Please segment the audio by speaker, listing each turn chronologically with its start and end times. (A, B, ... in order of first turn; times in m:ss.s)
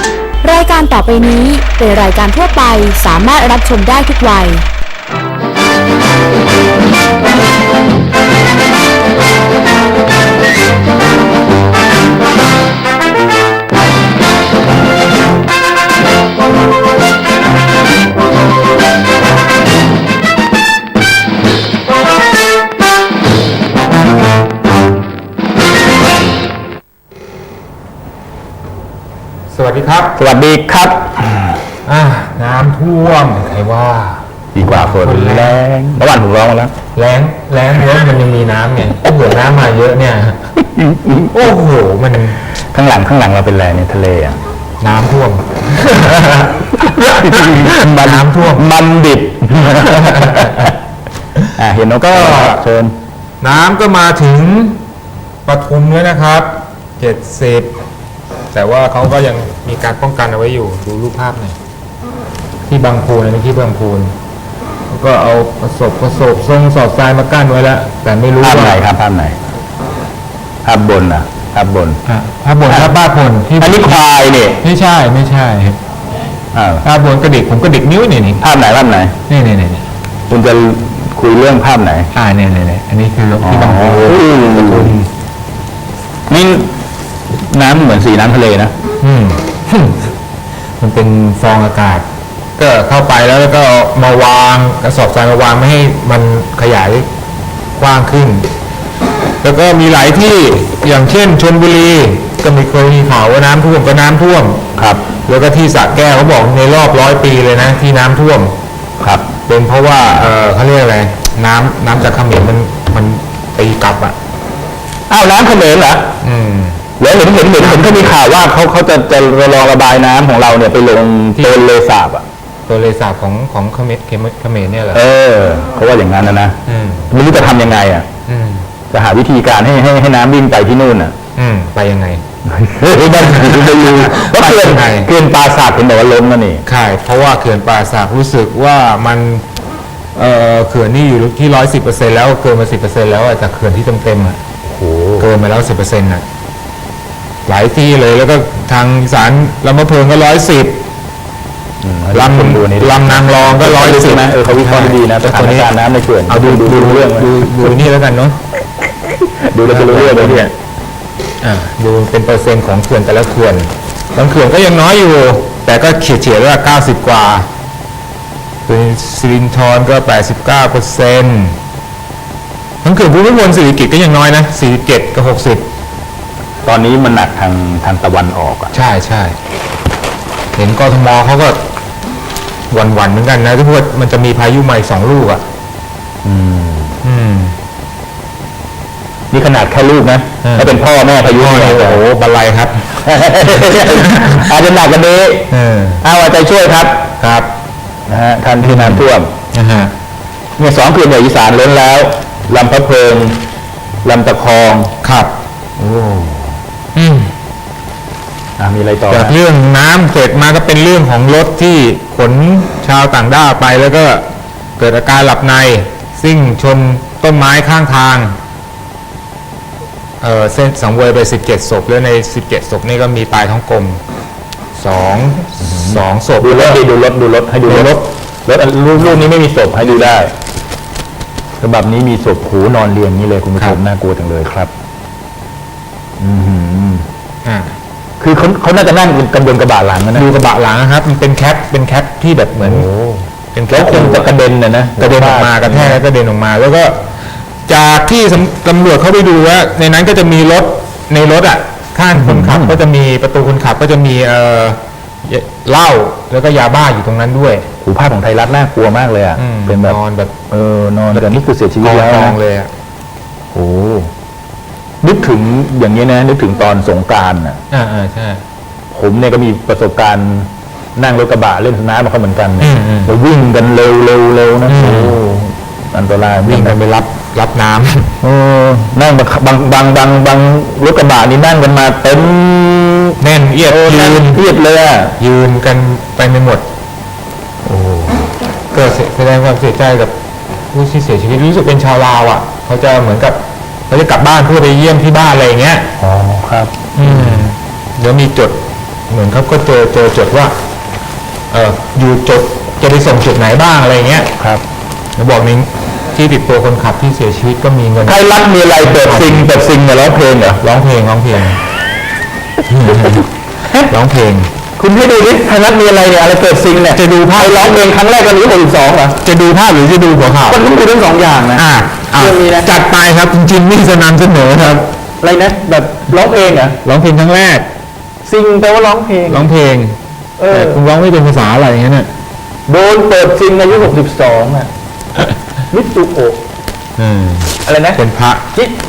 0:00.4-0:04.6 A
0:29.5-0:30.2 B
0:30.2-0:31.6 C
0:31.8-0:35.7 B
0:34.5-0:36.7 C
0:36.9-0:40.4 B
0:40.7-0:41.3 C
0:41.3-0:42.4 B
0:42.7-0:44.4 C
0:44.8-0:48.7 B
0:46.8-0:50.8 C
0:49.6-0:50.7 B
0:51.5-0:52.9 C
0:52.0-0:52.6 B
0:53.4-0:54.8 B
0:55.4-0:57.7 B
0:58.5-1:01.6 B
1:02.6-1:04.1 B
1:04.9-1:08.8 B
1:08.4-1:09.3 C
1:10.6-1:12.0 C
1:12.0-1:13.9 B
1:12.6-1:12.9 C
1:13.6-1:14.6 C
1:14.6-1:15.8 B
1:16.5-1:16.8 C
1:16.8-1:18.4 B
1:18.4-1:19.2 C
1:19.3-1:19.8 B
1:20.3-1:22.1 C
1:22.1-1:25.1 B
1:23.4-1:25.0 C
1:26.3-1:26.7 C
1:27.5-1:28.7 C
1:29.0-1:30.1 B
1:30.8-1:37.1 B
1:37.8-1:38.5 B
1:39.4-1:44.6 B
1:44.8-1:45.0 C
1:45.2-1:48.6 B
1:49.0-1:49.3 C
1:49.5-1:54.2 B
1:55.1-1:56.1 C
1:56.2-1:56.8 B
1:57.0-2:02.2 C
1:57.5-1:58.1 B
2:01.4-2:01.6 B
2:02.7-2:05.0 B
2:04.9-2:06.6 C
2:06.6-2:07.1 B
2:07.1-2:08.1 C
2:08.2-2:08.7 B
2:08.9-2:11.1 C
2:11.4-2:12.2 B
2:12.4-2:16.6 C
2:13.1-2:15.1 B
2:16.6-2:19.4 B
2:20.1-2:24.4 B
2:24.6-2:25.3 C
2:25.2-2:26.2 B
2:27.4-2:30.8 B
2:31.8-2:37.7 C
2:32.1-2:35.7 B
2:36.2-2:38.4 B
2:39.1-2:40.5 C
2:39.7-2:40.5 B
2:41.4-2:47.5 B
2:48.7-2:51.6 B
2:52.8-2:55.6 B
2:56.6-2:58.7 C
2:58.7-2:59.4 B
3:00.5-3:01.6 B
3:02.7-3:05.4 B
3:06.2-3:07.0 C
3:07.0-3:07.6 B
3:09.3-3:12.0 C
3:10.4-3:12.9 B
3:13.0-3:15.5 C
3:13.6-3:14.4 B
3:15.5-3:16.0 B
3:16.0-3:17.1 C
3:17.2-3:17.5 B
3:18.1-3:19.3 C
3:18.6-3:19.9 B
3:20.6-3:23.4 C
3:24.0-3:24.9 C
3:25.0-3:25.3 B
3:25.8-3:26.5 C
3:26.9-3:27.3 B
3:28.6-3:29.3 C
3:29.1-3:34.3 B
3:34.8-3:38.4 B
3:40.2-3:44.0 B
3:44.8-3:46.8 B
3:45.6-3:50.3 C
3:47.6-3:48.0 B
3:51.6-3:54.7 C
3:56.2-3:57.1 C
3:57.4-3:57.7 B
3:58.2-4:00.3 C
4:00.1-4:02.9 B
4:02.6-4:06.0 C
4:03.5-4:04.3 B
4:05.0-4:07.0 B
4:07.7-4:17.7 B
4:12.1-4:12.8 C
4:17.8-4:20.0 C
4:19.4-4:20.3 B
4:20.5-4:22.4 C
4:21.1-4:22.7 B
4:23.5-4:24.1 C
4:25.0-4:27.6 C
4:27.7-4:28.4 B
4:28.9-4:36.8 C
4:32.6-4:33.1 B
4:34.7-4:35.2 B
4:36.4-4:38.1 B
4:38.2-4:45.2 C
4:43.2-4:44.4 B
4:45.2-4:46.6 B
4:47.6-4:48.2 C
4:48.7-4:50.2 B
4:50.7-4:55.9 B
4:56.0-4:57.4 C
4:56.9-5:00.5 B
5:01.5-5:04.3 B
5:04.4-5:04.6 C
5:05.2-5:09.5 B
5:08.0-5:10.6 C
5:10.6-5:11.6 B
5:12.7-5:13.3 B
5:12.8-5:13.9 C
5:13.9-5:14.5 B
5:14.8-5:19.2 C
5:16.9-5:17.7 B
5:19.2-5:20.6 B
5:20.5-5:21.6 C
5:21.5-5:24.9 B
5:22.2-5:22.7 C
5:25.2-5:26.8 C
5:26.8-5:27.7 B
5:28.2-5:29.5 C
5:29.3-5:30.0 B
5:30.4-5:30.8 C
5:30.5-5:32.1 B
5:32.7-5:34.7 C
5:35.7-5:36.4 C
5:37.0-5:38.5 B
5:37.6-5:38.0 C